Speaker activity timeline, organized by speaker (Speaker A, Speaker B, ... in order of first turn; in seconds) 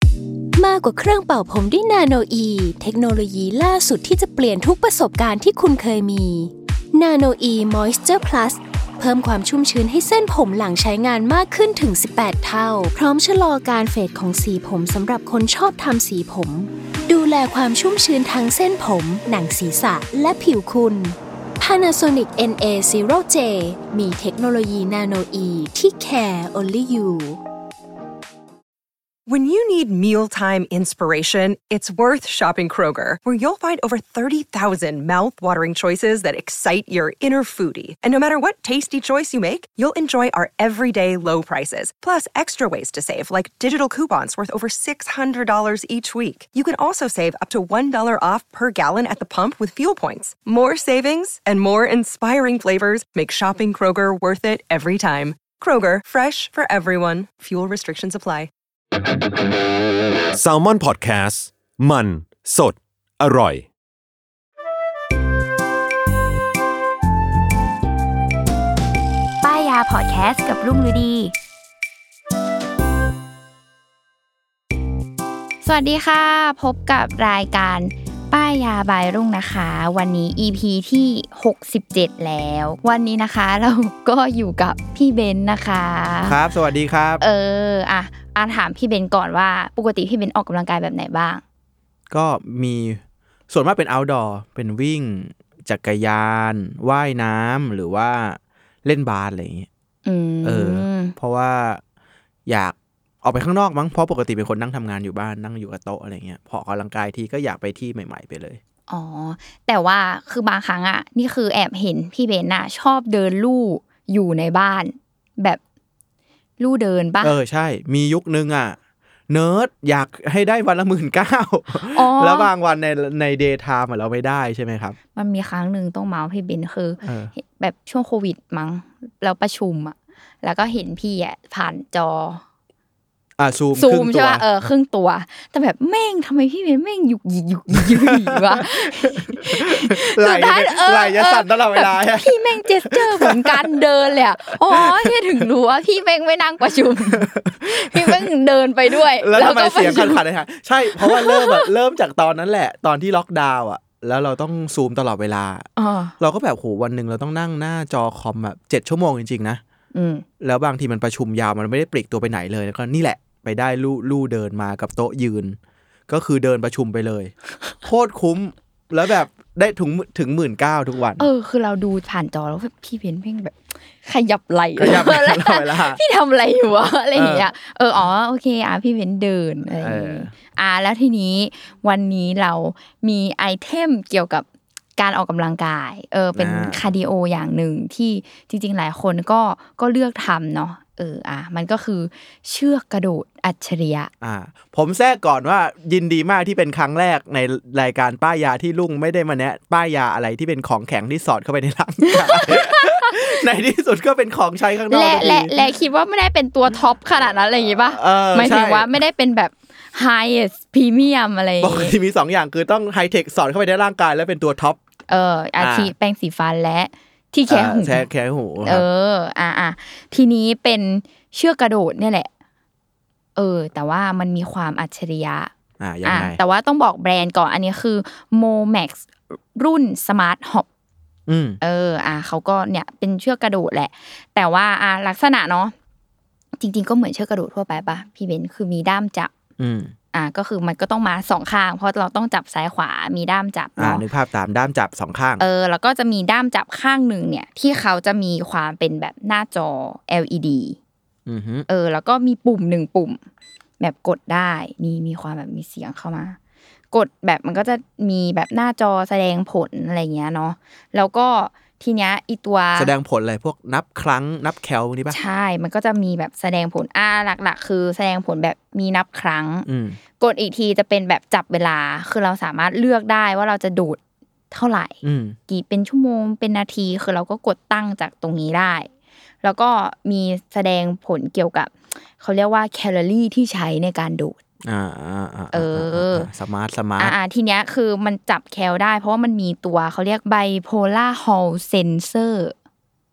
Speaker A: 0.6-27.4
Speaker B: 29.3-58.5
Speaker C: 60.3-63.7
Speaker D: 69.4-71.3, 75.6-86.4, 87.2-91.4, 100.0-101.1, 108.9-115.6, 116.6-117.3, 121.9-122.5, 125.1-132.4, 133.7-150.2, 150.9-151.7, 155.8-156.1, 159.9-160.2, 171.2-184.4, 185.0-194.1, 202.1-203.2, 204.9-211.9, 215.1-218.1, 218.6-222.3, 223.3-225.5, 226.0-230.7, 231.6-235.7, 236.6-239.3, 240.1-244.1, 245.4-250.8, 251.7-253.2, 253.8-256.4, 256.9-262.9, 265.1-269.7, 270.2-274.0, 274.5-278.9, 279.4-284.4, 285.5-286.3, 287.0-292.5
Speaker E: 86.2-87.2, 92.1-99.7, 100.4-101.8, 102.5-108.6, 117.2-118.8, 119.3-125.0, 127.0-127.3, 133.4-134.4, 137.8-143.6, 144.7-145.1, 147.1-148.2, 148.9-155.7, 156.2-159.6, 160.4-167.3, 167.8-171.3, 174.8-176.0, 177.1-177.5, 179.8-180.3, 186.3-186.9, 194.2-205.7, 207.9-208.9, 211.6-214.8, 215.6-215.9, 217.5-218.8, 225.8-226.4, 231.3-231.6, 239.6-239.9, 243.8-245.4, 251.2-251.7, 262.7-265.2, 269.6-270.0, 275.0-275.4, 284.6-287.1